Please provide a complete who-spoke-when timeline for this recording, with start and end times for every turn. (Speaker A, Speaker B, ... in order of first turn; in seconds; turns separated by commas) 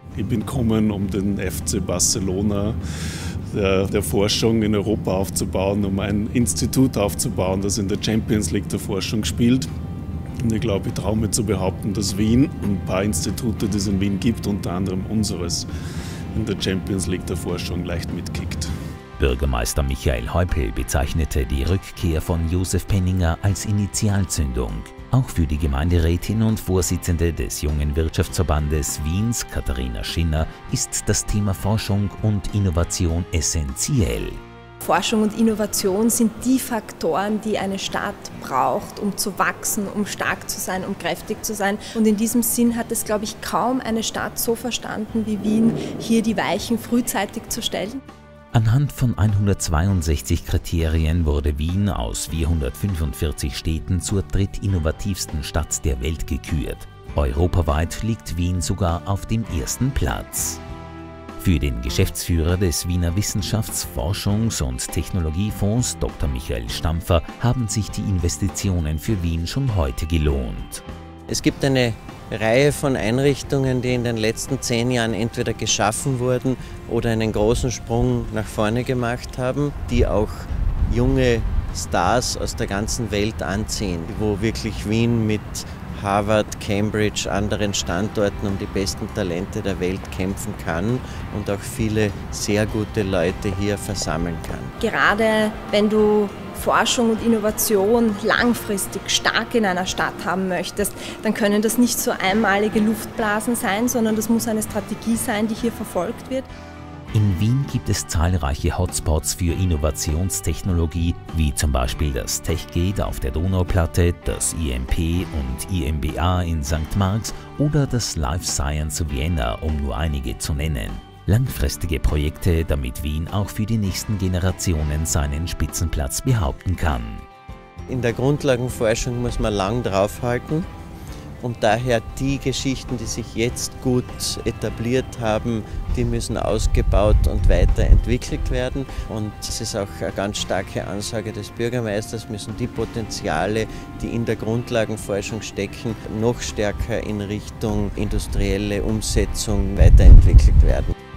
Speaker A: 0.2-2.7, Speaker A: 3.5-9.6, Speaker A: 10.5-15.6, Speaker A: 16.4-18.6, Speaker B: 19.2-34.4, Speaker C: 34.8-48.0, Speaker B: 48.5-60.6, Speaker B: 61.4-70.8, Speaker D: 71.3-94.7, Speaker C: 94.8-106.5, Speaker B: 107.1-127.2, Speaker D: 127.9-130.7, Speaker D: 131.4-150.9